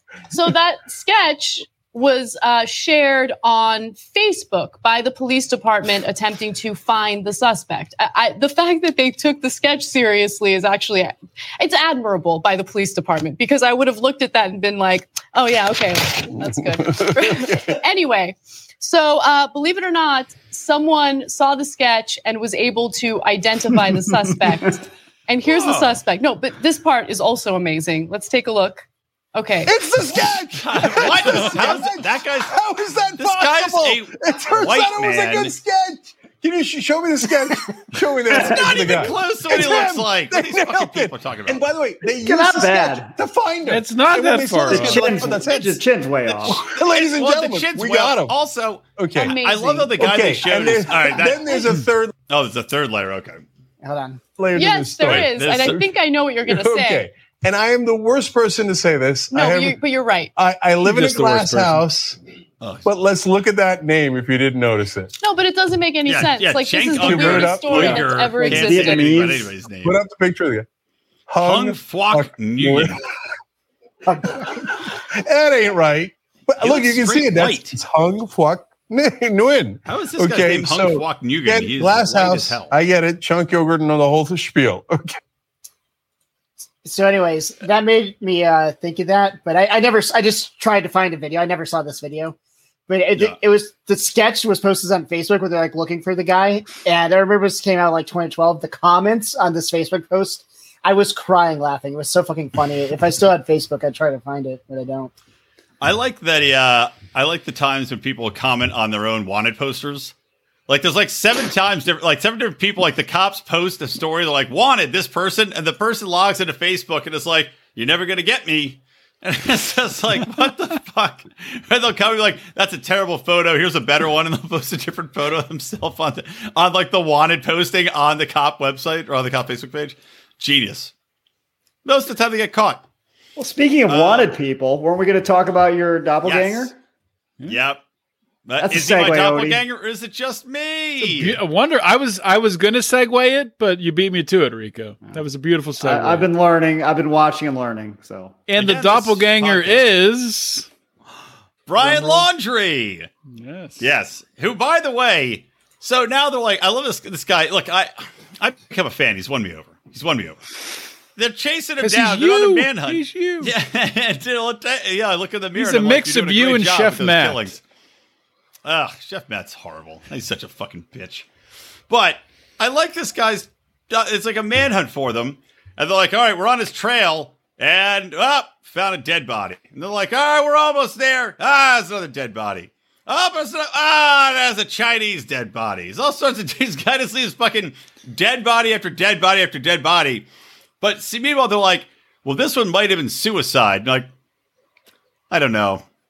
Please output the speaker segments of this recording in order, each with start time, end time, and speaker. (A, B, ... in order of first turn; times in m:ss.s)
0:00.3-0:28.8 A
0:17.2-0:17.5 B
0:25.4-0:26.0 C
0:29.4-0:29.7 A
0:29.6-0:45.8 B
0:30.5-0:32.5 C
0:33.2-0:35.6 C
0:38.4-0:41.6 C
0:38.4-0:38.8 D
0:42.2-0:43.1 D
0:43.7-0:45.1 E
0:44.7-0:46.6 D
0:46.3-0:51.7 C
0:46.4-0:48.4 B
0:49.0-0:49.4 B
0:49.2-0:49.9 A
0:50.0-0:52.1 B
0:52.3-0:53.4 C
0:53.8-0:54.2 F
0:54.4-0:55.9 B
0:54.6-0:57.0 A
0:55.0-0:55.8 C
0:56.4-0:59.8 B
0:59.3-1:00.3 A
1:00.4-1:02.2 B
1:00.8-1:01.8 E
1:02.6-1:02.9 C
1:02.8-1:05.1 B
1:05.2-1:09.2 A
1:06.0-1:10.0 C
1:06.9-1:08.3 B
1:08.4-1:09.5 D
1:09.8-1:10.7 B
1:11.3-1:13.0 B
1:11.4-1:13.0 C
1:14.2-1:25.2 B
1:16.6-1:17.8 C
1:19.9-1:22.7 C
1:26.8-1:32.4 F
1:32.9-1:45.1 F
1:45.8-1:50.1 C
1:50.7-2:10.9 C
2:11.8-2:12.8 C
2:13.4-2:16.7 D
2:13.9-2:14.4 C
2:16.2-2:16.7 C
2:17.5-2:17.8 C
2:18.5-2:21.4 C
2:18.6-2:19.6 D
2:21.0-2:26.3 E
2:25.8-2:28.4 D
2:28.5-2:30.7 E
2:28.6-2:29.9 C
2:31.7-2:33.1 C
2:33.3-2:33.8 E
2:33.8-2:40.4 C
2:41.2-2:47.6 C
2:41.8-2:43.5 E
2:45.6-2:47.6 E
2:48.6-2:51.3 C
2:51.9-3:10.3 C
3:10.8-3:14.1 C
3:15.3-3:15.8 C